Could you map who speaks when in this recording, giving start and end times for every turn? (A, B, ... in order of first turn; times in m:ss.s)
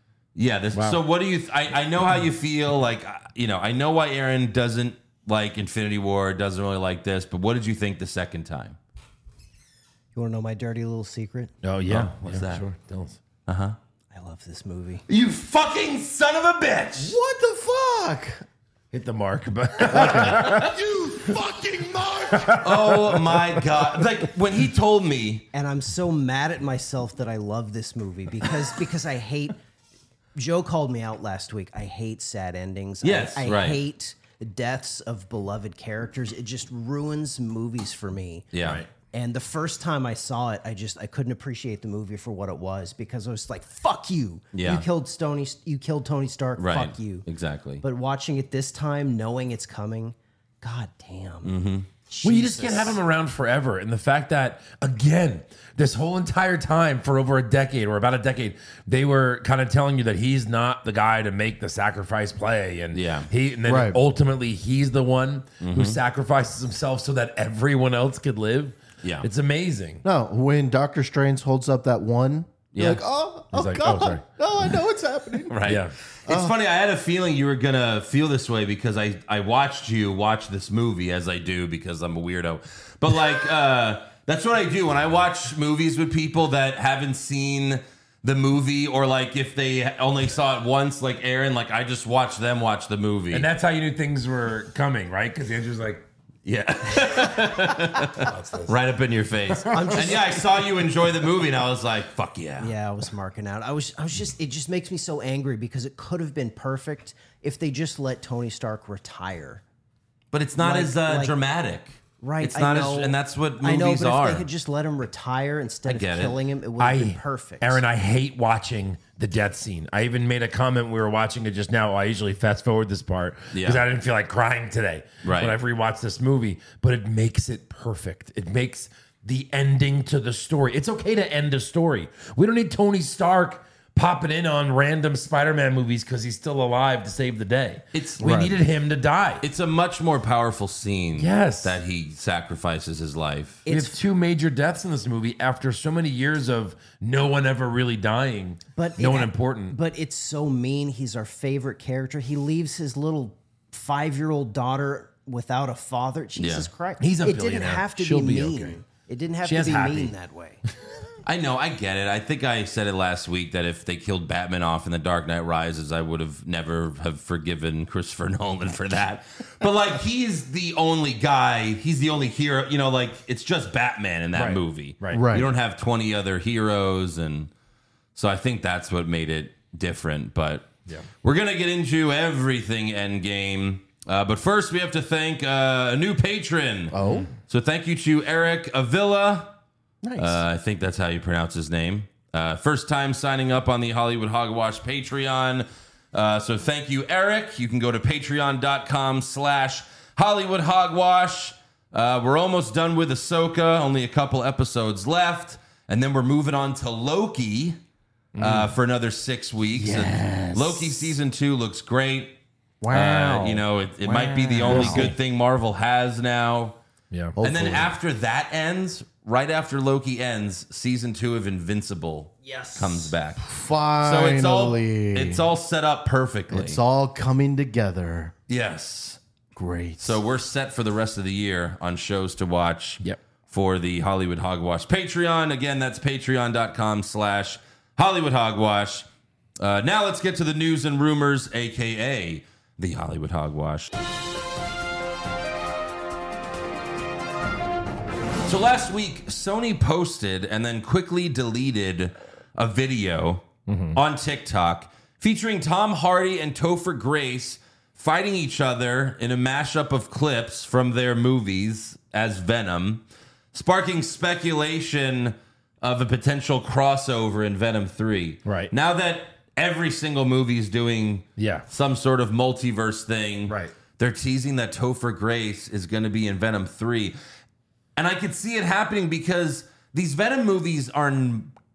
0:00.4-0:08.8 A
0:00.7-0:01.0 B
0:10.1-0:11.5 C
0:11.6-0:13.2 B
0:11.9-0:12.6 A
0:13.4-0:13.8 A
0:14.1-0:15.0 C
0:15.1-0:16.9 B
0:15.2-0:17.1 A
0:17.0-0:18.4 D
0:18.9-0:24.2 B
0:19.9-0:22.5 D
0:20.0-0:20.7 A
0:22.6-0:25.5 A
0:25.5-0:29.6 C
0:30.3-0:38.5 C
0:33.0-0:33.8 A
0:38.5-0:38.8 A
0:38.6-0:38.9 B
0:39.1-0:47.2 C
0:44.5-0:44.8 A
0:46.6-0:47.8 A
0:47.8-0:51.6 C
0:51.4-0:51.9 A
0:52.1-0:53.0 C
0:52.2-1:10.0 B
1:02.9-1:03.3 A
1:03.7-1:04.0 D
1:05.6-1:06.0 A
1:09.0-1:09.3 A
1:10.0-1:15.6 D
1:12.7-1:13.0 A
1:13.5-1:14.2 B
1:15.5-1:33.5 A
1:15.6-1:15.9 B
1:16.3-1:16.5 D
1:33.3-1:36.0 B
1:36.4-1:42.7 A
1:37.5-1:38.7 B
1:39.5-1:40.6 B
1:39.7-1:40.3 C
1:42.6-1:49.6 C
1:50.3-1:54.4 A
1:50.6-1:51.3 C
1:52.2-1:57.8 C
1:55.8-1:56.4 A
1:56.8-2:19.4 B
2:03.5-2:03.8 A
2:05.2-2:05.5 A
2:17.9-2:18.4 A
2:18.2-2:18.5 D
2:19.4-2:23.6 A
2:21.2-2:21.8 B
2:23.6-2:24.0 C
2:23.7-2:29.8 B
2:28.8-2:40.6 C
2:36.4-2:36.7 A
2:37.0-2:38.8 B
2:39.4-2:40.1 B
2:41.2-2:57.5 A
2:54.3-2:55.2 B
2:55.1-2:55.5 D
2:58.1-3:09.5 A
3:06.9-3:07.3 D
3:10.0-3:10.4 D
3:10.2-3:27.8 A
3:28.3-3:28.7 B
3:28.4-3:32.4 A
3:29.7-3:31.1 D
3:32.8-3:35.1 D
3:32.9-3:36.8 A
3:34.6-3:35.2 B
3:37.1-3:37.4 B
3:37.4-3:37.9 D
3:37.4-3:46.8 A
3:42.4-3:43.1 C
3:43.4-3:45.4 D
3:46.5-3:48.3 D
3:48.5-3:49.2 A
3:49.6-3:50.2 D
3:50.0-3:59.1 A
3:59.6-4:03.9 A
4:08.4-4:37.2 A
4:13.7-4:14.0 B
4:28.4-4:28.7 B
4:31.4-4:31.6 B
4:33.5-4:33.7 B
4:38.0-4:41.5 A